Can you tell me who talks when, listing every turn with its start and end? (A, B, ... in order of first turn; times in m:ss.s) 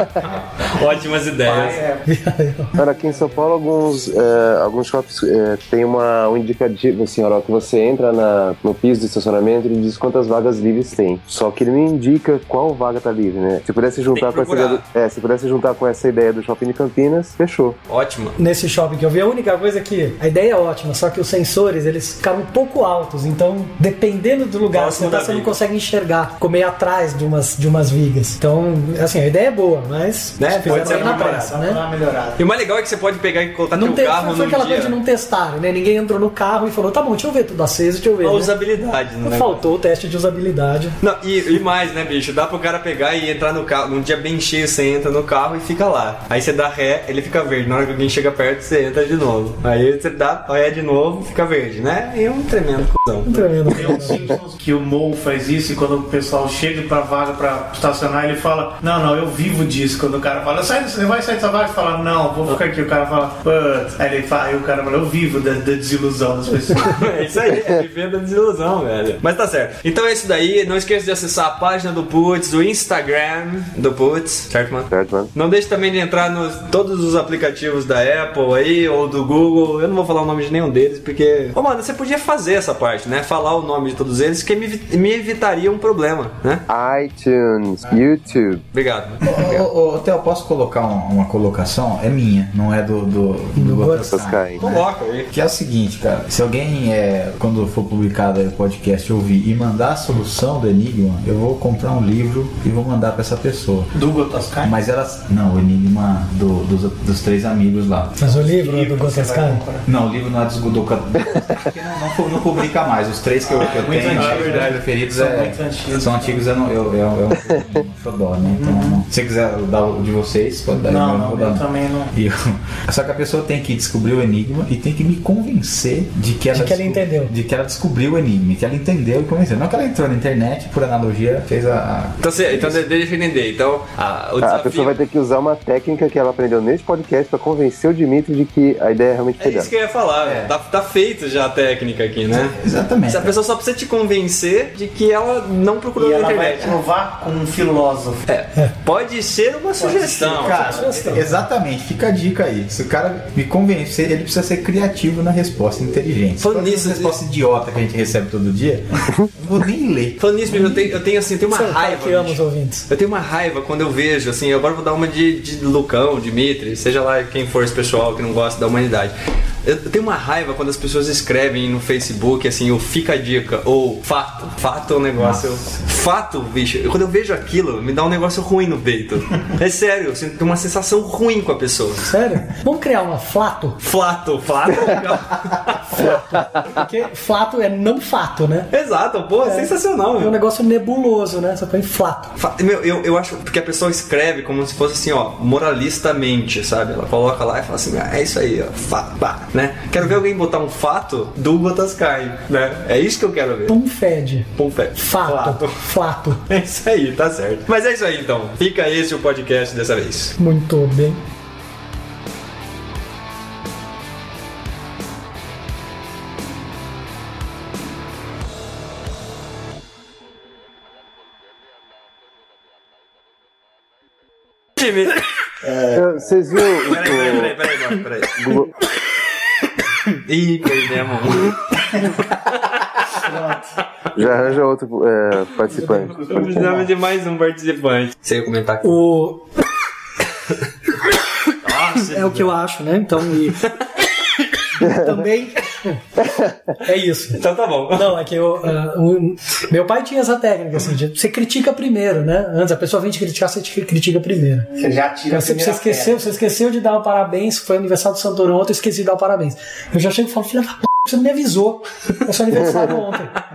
0:00.2-0:01.8 A
0:01.4-0:02.0 B
0:02.1-0:02.8 C
0:02.8-0:17.8 D
0:14.1-0:14.8 A
0:17.9-0:18.4 A
0:18.4-0:31.8 C
0:24.7-0:25.6 A
0:30.4-0:31.5 A
0:30.6-0:32.4 B
0:32.4-0:35.0 A
0:33.8-0:41.0 C
0:38.2-0:39.6 A
0:41.0-0:53.5 A
0:53.2-0:54.2 C
0:53.7-1:06.9 B
1:06.8-1:26.6 A
1:14.9-1:15.3 D
1:26.7-1:28.6 D
1:28.7-1:29.6 A
1:29.2-1:43.9 E
1:33.6-1:34.1 C
1:34.0-1:34.6 D
1:34.6-1:35.3 A
1:43.9-1:44.8 B
1:44.6-1:48.2 E
1:48.2-1:49.6 C
1:48.2-1:49.9 B
1:49.8-2:12.8 E
1:53.4-1:56.4 B
1:54.1-1:54.8 A
1:58.5-1:59.0 B
2:00.9-2:02.1 B
2:06.5-2:07.3 C
2:12.2-2:15.0 A
2:14.4-2:19.7 D
2:19.4-2:26.8 A
2:20.2-2:20.5 E
2:22.3-2:23.3 E
2:25.9-2:28.2 B
2:28.3-2:30.8 A
2:29.8-2:31.2 B
2:30.4-2:41.0 E
2:30.7-2:31.3 C
2:36.4-2:37.1 A
2:40.2-3:02.1 A
2:41.5-2:42.9 C
2:55.2-2:55.8 E
3:02.0-3:03.8 C
3:03.8-3:06.2 A
3:05.9-3:08.7 C
3:08.7-3:10.3 A
3:09.4-3:12.3 C
3:12.4-3:23.7 A
3:23.7-3:26.4 C
3:24.6-3:25.8 A
3:26.4-3:30.3 A
3:30.4-3:31.2 C
3:44.8-3:45.1 A
3:45.6-3:46.0 B
3:45.9-3:47.5 D
3:46.8-3:48.5 A
3:48.4-3:48.7 D
3:50.1-3:52.1 A
3:53.1-3:53.7 B
3:54.1-3:56.4 D
3:55.7-3:56.9 B
3:56.3-3:59.0 A
3:58.8-3:59.5 C
4:01.6-4:02.5 A
4:02.0-4:03.7 C
4:04.8-4:05.1 D
4:04.8-4:06.0 C
4:06.2-4:06.5 D
4:06.8-4:07.4 C
4:07.3-4:08.1 A
4:07.9-4:14.7 C
4:14.8-4:16.3 B
4:15.3-4:23.4 C